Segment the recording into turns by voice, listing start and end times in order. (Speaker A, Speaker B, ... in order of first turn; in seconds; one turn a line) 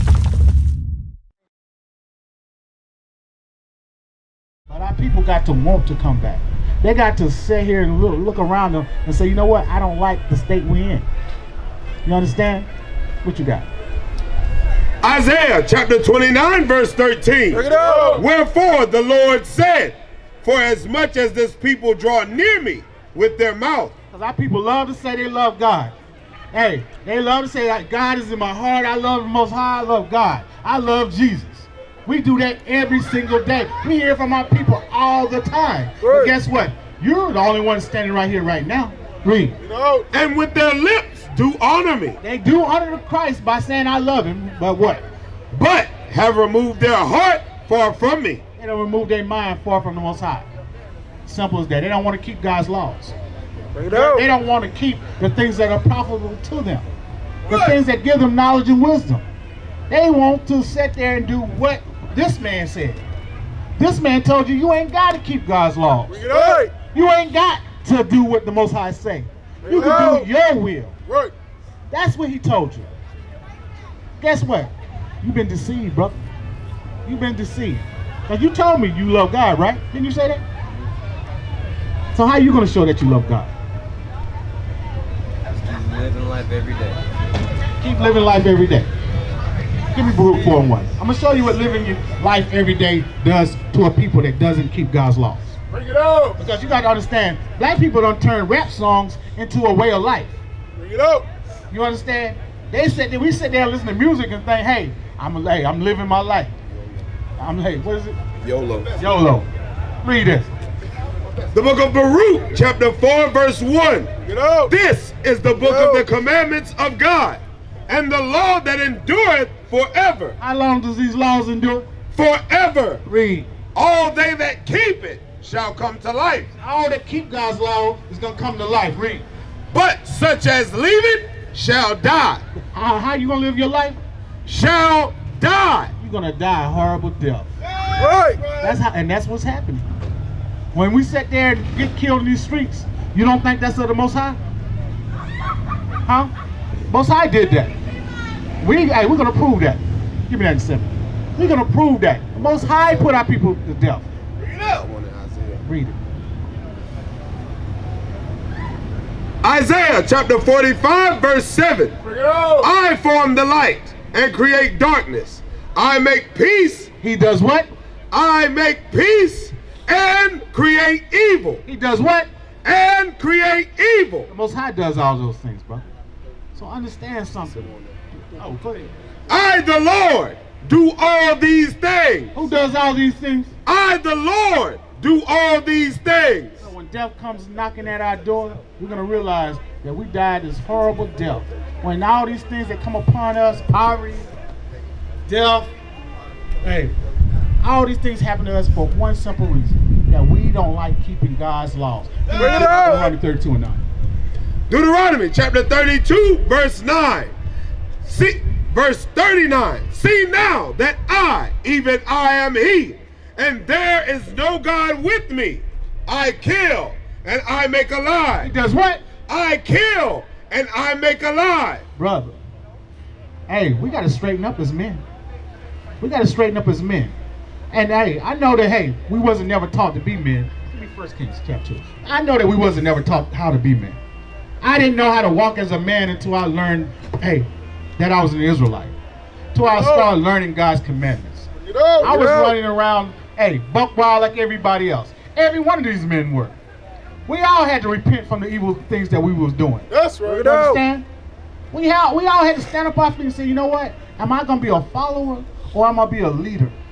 Speaker A: 4.7-11.1
Speaker A: 12.1-12.7
Speaker A: 13.2-13.7
Speaker B: 15.0-23.9
Speaker C: 17.5-18.2
Speaker D: 17.7-18.2
Speaker A: 24.1-25.9
Speaker A: 26.5-39.6
Speaker C: 36.0-36.3
Speaker D: 39.6-40.1
Speaker B: 40.1-42.2
Speaker A: 42.2-45.0
Speaker B: 45.5-48.4
Speaker A: 48.6-50.5
Speaker A: 51.2-53.2
Speaker C: 53.8-54.2
Speaker A: 53.9-56.9
Speaker D: 57.5-57.8
Speaker A: 57.5-59.2
Speaker A: 59.9-63.0
Speaker A: 63.8-70.9
Speaker D: 66.1-66.7
Speaker D: 69.6-70.3
Speaker D: 71.1-71.3
Speaker A: 71.9-72.9
Speaker A: 74.2-76.2
Speaker A: 77.1-80.4
Speaker A: 82.1-83.5
Speaker C: 85.5-87.0
Speaker A: 87.8-88.9
Speaker A: 89.9-95.5
Speaker D: 95.7-96.4
Speaker A: 96.4-100.3
Speaker D: 100.8-101.3
Speaker A: 101.7-106.5
Speaker A: 107.4-108.2
Speaker A: 109.0-109.5
Speaker A: 110.0-110.5
Speaker B: 111.5-114.1
Speaker D: 114.2-114.7
Speaker B: 114.7-120.4
Speaker D: 115.6-116.0
Speaker A: 120.4-121.9
Speaker B: 122.1-123.0
Speaker A: 123.1-123.5
Speaker B: 123.8-126.5
Speaker A: 126.6-129.2
Speaker B: 129.7-132.4
Speaker A: 132.6-134.0
Speaker B: 134.5-135.9
Speaker A: 136.0-137.5
Speaker D: 137.6-138.8
Speaker C: 138.0-138.4
Speaker A: 138.6-139.9
Speaker A: 140.7-144.4
Speaker A: 146.1-146.3
Speaker A: 146.9-147.7
Speaker A: 148.6-154.1
Speaker D: 154.4-154.8
Speaker B: 155.0-155.3
Speaker A: 155.6-156.0
Speaker B: 159.4-162.0
Speaker D: 162.0-162.7
Speaker B: 162.6-166.9
Speaker A: 167.0-167.7
Speaker B: 168.1-171.6
Speaker A: 171.7-172.3
Speaker B: 172.6-174.3
Speaker A: 174.3-175.9
Speaker A: 176.6-177.7
Speaker A: 178.4-178.9
Speaker B: 179.3-182.3
Speaker A: 182.3-183.5
Speaker B: 183.7-186.7
Speaker A: 186.6-194.3
Speaker A: 195.3-195.7
Speaker A: 196.6-196.9
Speaker A: 197.6-203.8
Speaker D: 202.3-202.9
Speaker C: 202.4-203.1
Speaker B: 204.7-207.3
Speaker B: 208.0-218.5
Speaker A: 218.4-219.0
Speaker B: 219.3-221.8
Speaker A: 222.0-222.4
Speaker A: 223.5-225.1
Speaker A: 226.0-227.1
Speaker A: 227.7-234.0
Speaker A: 234.6-238.9
Speaker A: 239.5-241.5
Speaker D: 239.7-240.2
Speaker D: 241.6-242.1
Speaker A: 242.0-246.6
Speaker C: 242.0-242.6
Speaker A: 247.3-251.1
Speaker D: 249.9-250.5
Speaker C: 250.2-250.8
Speaker A: 251.7-256.8